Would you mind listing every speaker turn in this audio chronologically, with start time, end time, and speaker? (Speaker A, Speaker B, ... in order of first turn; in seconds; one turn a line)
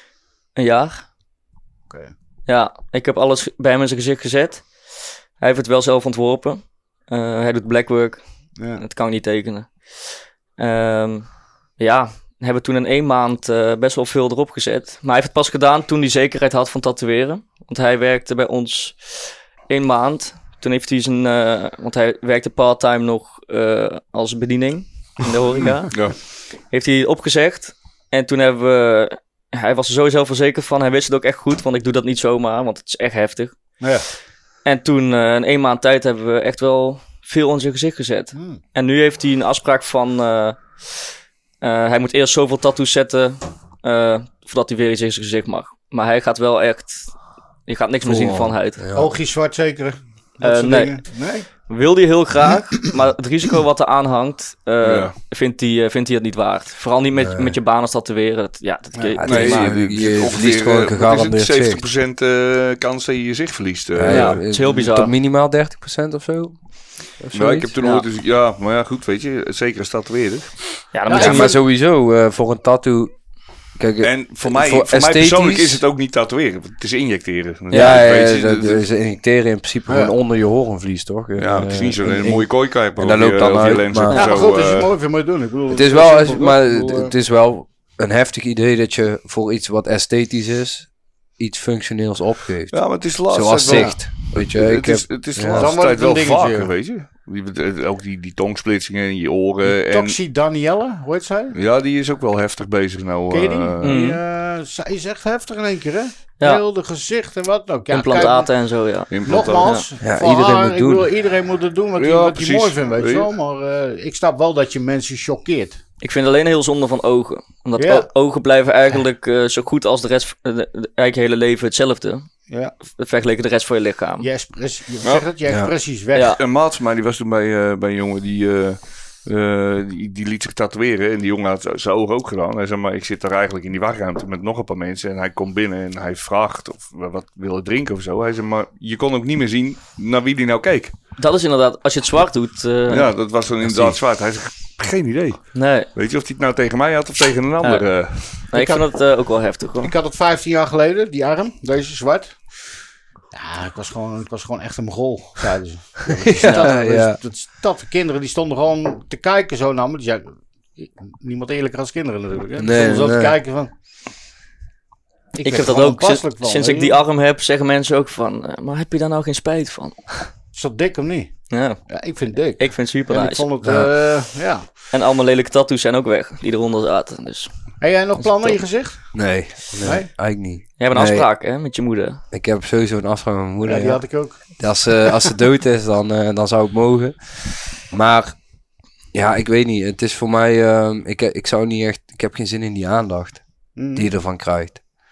Speaker A: 0.6-1.0
Speaker A: 2.5-4.7
Speaker A: 5.4-8.2
Speaker B: 8.6-8.8
Speaker A: 8.8-9.9
Speaker A: 10.6-26.1
Speaker C: 25.9-26.2
Speaker A: 26.7-33.5
Speaker B: 33.8-34.1
Speaker A: 34.6-41.0
Speaker B: 38.4-38.6
Speaker A: 41.6-47.1
Speaker A: 47.7-48.8
Speaker D: 48.0-49.1
Speaker B: 48.9-51.5
Speaker A: 50.4-51.0
Speaker A: 51.7-59.8
Speaker C: 54.8-55.1
Speaker D: 57.2-57.5
Speaker D: 59.2-61.8
Speaker C: 59.2-64.4
Speaker D: 64.0-66.6
Speaker A: 64.1-65.1
Speaker D: 67.2-67.7
Speaker C: 67.3-70.6
Speaker A: 70.9-71.6
Speaker B: 71.1-71.6
Speaker D: 71.1-73.1
Speaker D: 73.8-75.8
Speaker C: 74.0-78.8
Speaker D: 77.7-84.3
Speaker A: 77.7-78.0
Speaker B: 79.9-80.1
Speaker C: 81.4-84.9
Speaker B: 84.1-87.1
Speaker D: 85.7-90.9
Speaker D: 91.4-95.7
Speaker C: 92.7-100.2
Speaker B: 93.7-94.0
Speaker B: 95.5-96.7
Speaker B: 99.7-101.6
Speaker C: 101.5-104.0
Speaker B: 103.3-108.5
Speaker A: 103.8-104.2
Speaker A: 107.9-109.9
Speaker C: 109.1-109.7
Speaker B: 109.3-115.8
Speaker D: 110.0-111.1
Speaker C: 112.0-113.3
Speaker A: 116.0-122.3
Speaker B: 117.8-118.1
Speaker B: 122.5-122.7
Speaker A: 122.8-124.3
Speaker B: 124.2-126.4
Speaker A: 126.1-126.4
Speaker C: 126.4-140.9
Speaker A: 141.2-143.1
Speaker C: 142.9-148.4
Speaker A: 145.6-145.9
Speaker A: 147.6-149.9
Speaker B: 148.5-148.9
Speaker B: 149.8-152.5
Speaker B: 153.3-163.7
Speaker D: 156.2-157.2
Speaker D: 162.6-163.4
Speaker B: 165.3-167.0
Speaker A: 165.4-170.1
Speaker B: 170.5-174.7
Speaker A: 171.5-171.8
Speaker A: 172.6-173.5
Speaker D: 173.6-173.9
Speaker A: 174.9-177.5
Speaker B: 177.8-179.2
Speaker A: 178.2-178.6
Speaker D: 179.1-181.3
Speaker B: 179.8-180.1
Speaker A: 180.8-182.2
Speaker D: 182.3-187.2
Speaker B: 183.6-184.4
Speaker D: 187.8-188.4
Speaker D: 189.1-194.8
Speaker B: 193.8-194.1